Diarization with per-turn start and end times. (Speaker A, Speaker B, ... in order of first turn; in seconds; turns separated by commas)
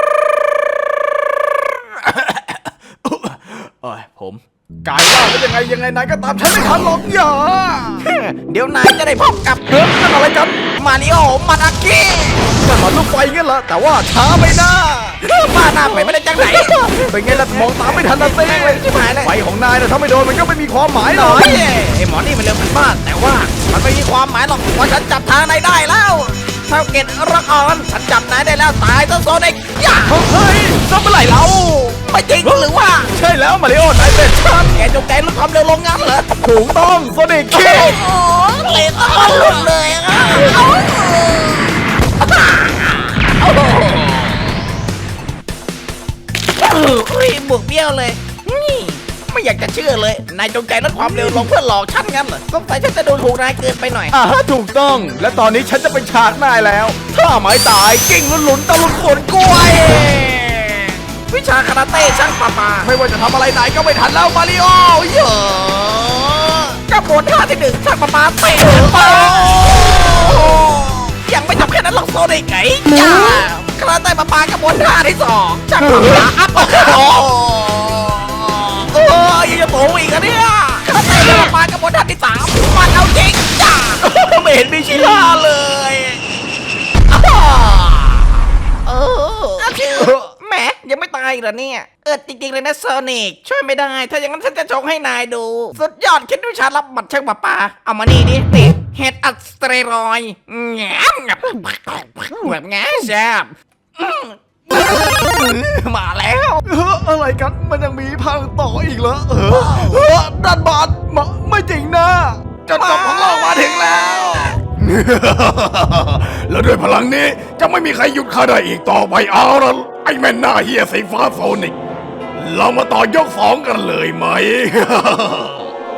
Speaker A: 2.0-8.0, Speaker B: 8.0-9.8, Speaker A: 9.7-10.6, Speaker B: 10.8-12.5, Speaker A: 12.6-15.2, Speaker B: 15.2-19.3, Speaker A: 16.5-21.6, Speaker B: 21.0-30.2, Speaker A: 30.1-34.8, Speaker B: 32.0-33.1, Speaker B: 34.2-36.3, Speaker A: 36.4-38.0, Speaker B: 37.5-44.6, Speaker B: 46.6-54.1, Speaker A: 51.0-51.4, Speaker A: 54.1-59.7, Speaker B: 59.4-62.9, Speaker A: 62.8-66.8, Speaker B: 66.9-86.2, Speaker B: 87.1-106.6, Speaker A: 106.6-121.8, Speaker B: 109.5-110.1, Speaker B: 112.7-114.5, Speaker A: 122.3-125.7